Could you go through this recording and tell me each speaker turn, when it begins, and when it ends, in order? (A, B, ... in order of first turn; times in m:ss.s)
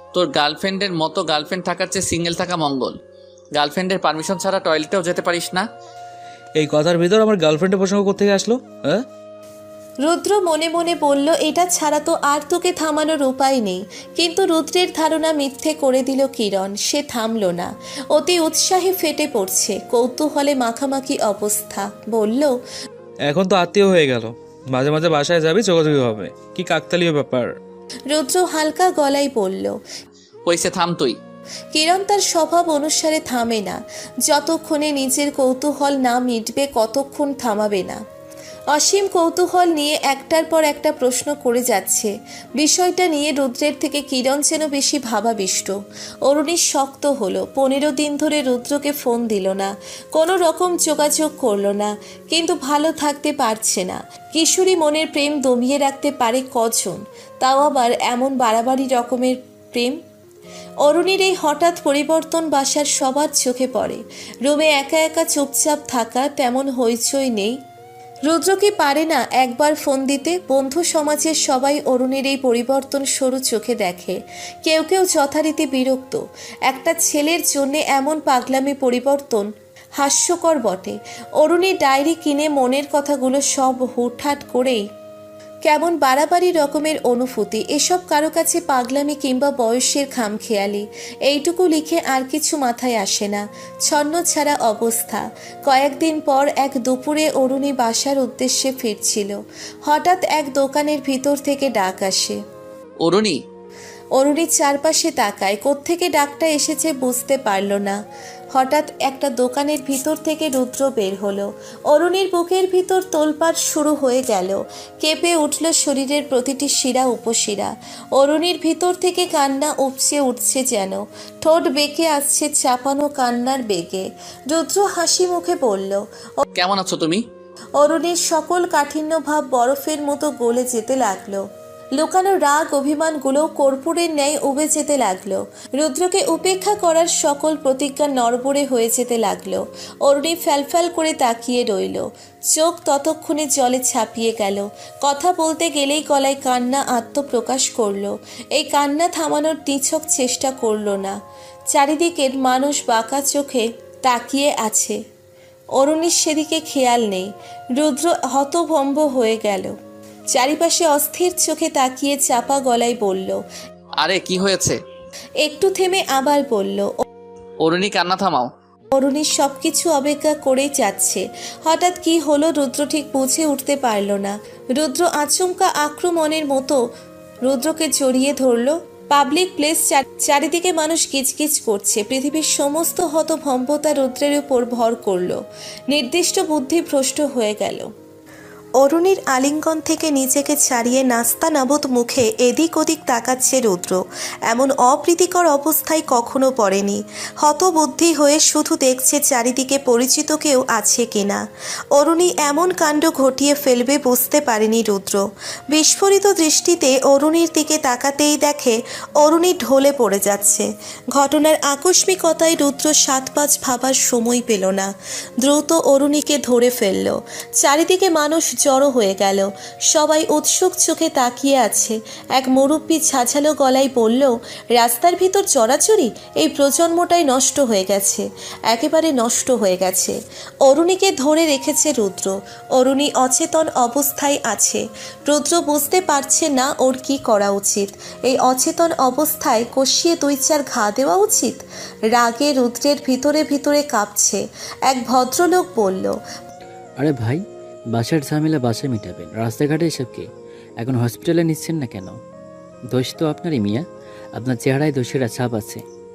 0:00.1-0:03.0 A
0:03.6-0:05.7 A
0:06.6-0:09.0 B
0:10.0-0:22.6 C
0:23.3-0:27.5 B
0:28.1-0:29.8 C
0:30.5-0:31.2 A
0:31.7-0:38.0 C
0:38.7-1:00.0 C
1:00.8-1:07.6 C
1:08.3-1:24.9 C
1:25.6-1:42.4 C
1:43.0-1:43.4 A
1:44.2-1:48.0 C
1:48.5-2:06.4 C
2:06.6-2:07.2 A
2:07.8-2:31.2 C
2:31.7-2:35.0 C
2:35.8-2:39.8 C
2:40.3-2:43.4 C
2:44.0-2:44.8 A
2:45.4-2:47.0 C
2:47.6-2:48.5 A
2:48.9-2:56.8 C
2:57.5-3:07.9 C
3:08.8-4:06.2 C
4:07.0-4:07.4 D
4:07.9-4:10.3 D
4:10.8-4:12.2 D
4:12.9-4:13.8 D
4:14.4-4:15.8 D